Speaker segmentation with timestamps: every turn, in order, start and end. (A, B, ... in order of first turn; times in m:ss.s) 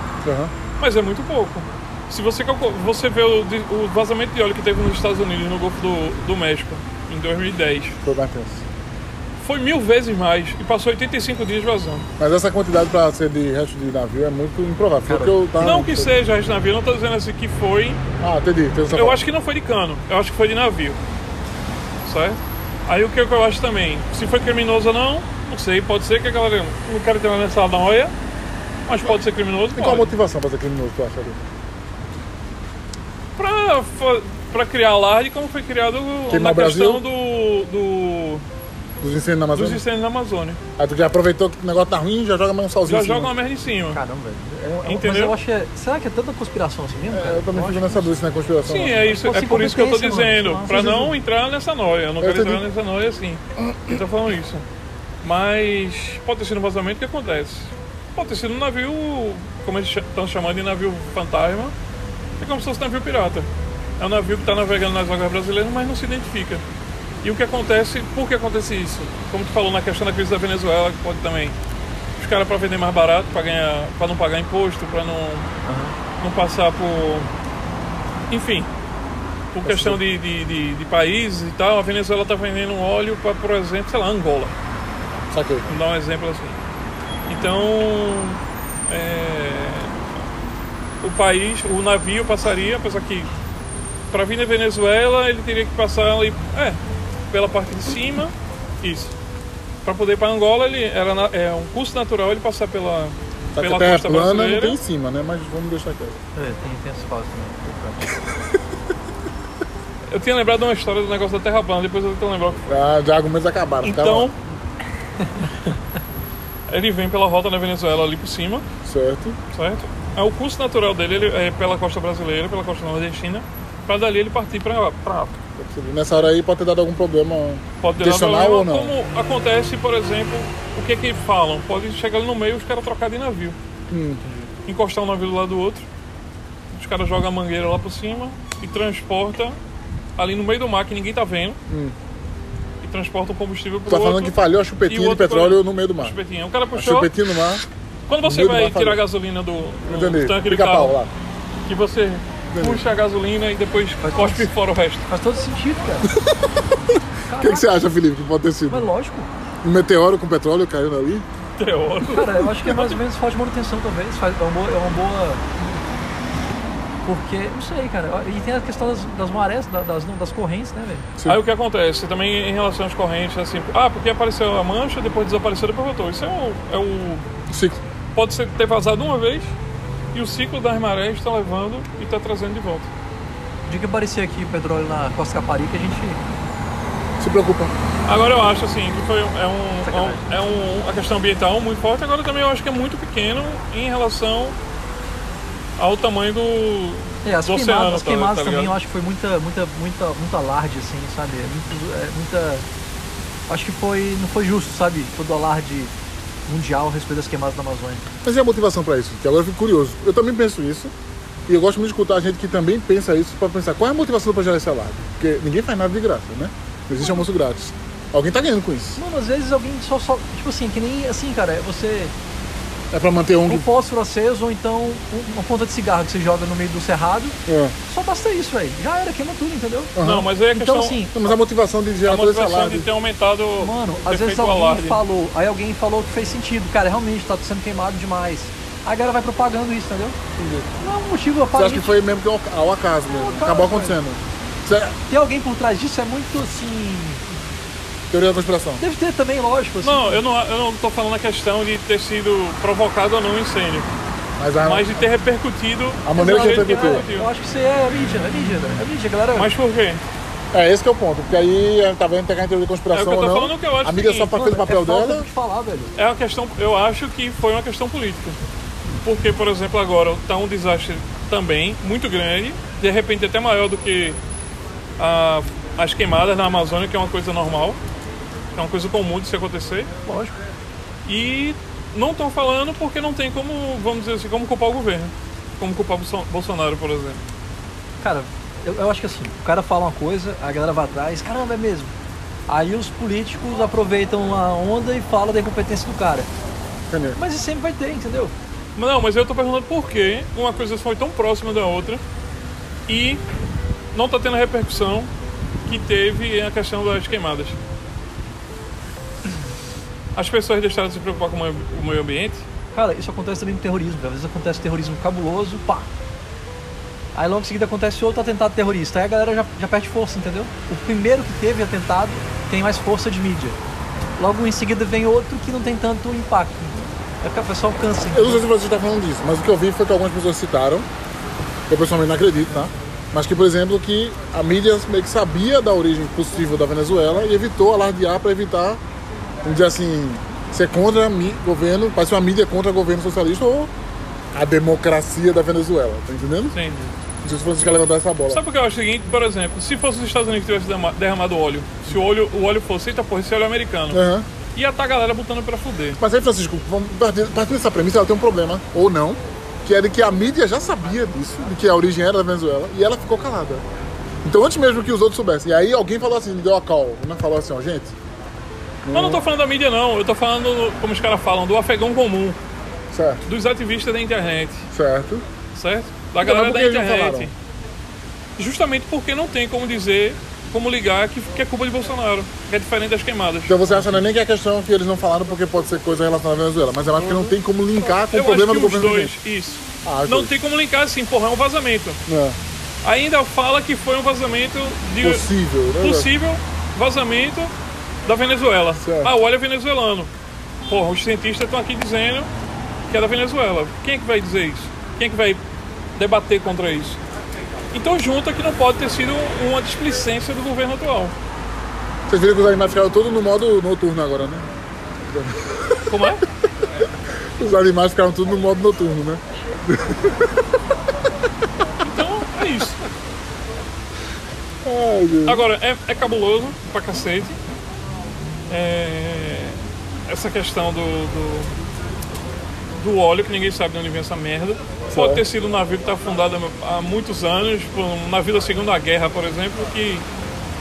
0:00.2-0:00.5 A
0:00.8-0:08.0 B
0:08.0-0:08.6 A
0:09.4-0:12.0 B
0:12.2-0:16.1 A
0:15.0-0:15.4 C
0:15.6-0:18.0 B
0:18.2-0:19.2 A
0:18.9-0:21.0 B
0:22.0-0:28.1 B
0:28.9-0:30.1 B
0:29.7-0:31.4 A
0:33.4-0:38.4 B
0:36.3-0:37.0 A
0:39.0-0:39.8 A
0:39.5-0:40.6 B
0:40.8-0:43.3 A
0:42.8-0:44.0 B
0:43.9-0:48.1 C
0:44.8-0:45.4 B
0:47.1-0:49.1 A
0:48.6-0:54.6 B
0:49.1-0:51.0 C
0:50.6-0:51.1 A
0:52.2-0:52.6 A
0:53.6-0:53.9 A
0:55.2-1:01.7 B
1:02.4-1:03.5 B
1:04.0-1:06.6 B
1:07.2-1:11.6 B
1:12.2-1:15.5 B
1:15.6-1:15.9 C
1:16.2-1:17.3 B
1:18.3-1:18.7 B
1:19.5-1:24.5 B
1:19.6-1:20.0 A
1:25.3-1:25.7 A
1:25.7-1:26.6 B
1:27.3-1:30.0 B
1:31.0-1:33.3 B
1:34.1-1:36.8 B
1:37.3-1:39.1 B
1:39.8-1:44.8 B
1:43.5-1:46.2 A
1:46.3-1:48.2 C
1:50.1-1:52.6 B
1:52.7-1:54.3 A
1:53.8-1:54.3 B
1:56.7-1:58.7 B
1:58.8-1:59.4 A
1:59.5-2:05.4 B
2:05.6-2:08.9 A
2:07.8-2:13.6 B
2:13.9-2:14.4 A
2:14.6-2:15.9 B
2:16.7-2:19.6 B
2:20.2-2:21.6 B
2:21.7-2:22.0 A
2:22.8-2:27.1 B
2:23.8-2:26.2 A
2:26.7-2:27.6 A
2:28.1-2:31.0 B
2:28.2-2:29.0 A
2:29.8-2:31.1 A
2:31.6-2:35.1 B
2:32.5-2:32.8 A
2:34.0-2:34.5 C
2:35.1-2:36.1 C
2:37.3-2:37.7 C
2:37.4-2:38.9 A
2:38.7-2:39.3 C
2:39.6-2:41.2 A
2:41.6-2:43.0 B
2:42.1-2:45.4 C
2:47.0-2:51.0 C
2:51.2-2:57.2 B
2:57.5-2:57.8 A
2:58.1-2:59.5 B
3:00.1-3:02.9 B
3:03.6-3:06.2 C
3:07.2-3:07.7 A
3:08.0-3:14.6 B
3:09.8-3:10.2 C
3:15.8-3:18.8 B
3:17.2-3:22.6 C
3:23.5-3:25.9 C
3:26.5-3:28.0 C
3:28.2-3:30.9 A
3:31.5-3:39.0 A
3:39.0-3:42.1 C
3:42.9-3:43.7 A
3:43.4-3:49.9 C
3:47.4-3:47.8 A
3:50.0-3:50.3 A
3:50.0-3:51.0 B
3:50.5-3:51.3 C
3:51.1-3:52.9 A
3:52.0-3:55.0 B
3:53.6-4:00.2 C
4:00.4-4:00.7 A
4:00.8-4:02.0 C
4:01.5-4:05.0 A
4:03.0-4:04.0 C
4:05.1-4:07.3 C
4:08.1-4:08.8 A
4:08.8-4:10.2 C
4:09.8-4:13.9 B
4:14.4-4:15.0 A
4:14.6-4:17.3 B
4:16.0-4:17.0 A
4:16.1-4:19.5 C
4:19.3-4:20.0 B
4:20.5-4:25.3 A
4:22.9-4:24.3 B
4:24.3-4:25.9 C
4:26.0-4:28.4 B
4:29.0-4:34.2 B
4:35.0-4:37.8 B
4:38.5-4:39.9 B
4:40.0-4:40.4 C
4:41.0-4:47.2 B
4:48.0-4:51.9 C
4:52.5-4:56.3 C
4:56.9-4:57.2 A
4:57.2-4:58.3 C
4:58.8-5:02.0 B
5:02.9-5:03.2 B
5:03.9-5:05.1 B
5:05.6-5:07.6 B
5:10.1-5:12.4 B
5:12.7-5:15.9 C
5:17.1-5:23.6 C
5:24.2-5:28.4 C
5:28.1-5:30.9 A
5:31.7-5:38.8 A
5:39.4-5:43.7 A
5:44.3-5:46.6 A
5:46.5-5:46.8 B
5:47.2-5:48.4 A
5:48.3-5:54.0 B
5:53.9-5:54.3 A
5:54.5-5:56.0 B
5:56.0-6:03.6 A
6:04.2-6:07.9 A
6:08.8-6:09.2 A
6:08.9-6:12.4 B
6:12.9-6:13.2 A
6:13.2-6:14.7 B
6:14.7-6:15.2 A
6:15.5-6:17.3 B
6:16.2-6:17.3 A
6:18.4-6:24.0 B
6:23.4-6:29.1 A
6:26.9-6:27.4 B
6:28.1-6:32.0 B
6:29.8-6:30.4 A
6:32.1-6:32.4 A
6:32.8-6:37.5 B
6:35.0-6:36.1 A
6:38.0-6:40.1 B
6:38.8-6:39.2 A
6:40.7-6:42.3 B
6:42.9-6:45.4 B
6:46.0-6:47.0 B
6:47.7-6:51.2 B
6:52.1-6:54.5 A
6:55.1-6:56.1 A
6:55.9-6:56.2 B
6:57.4-7:00.4 A
7:01.8-7:02.8 B
7:04.6-7:05.4 A
7:05.2-7:07.4 B
7:08.5-7:11.5 B
7:12.8-7:20.1 B
7:14.9-7:15.2 A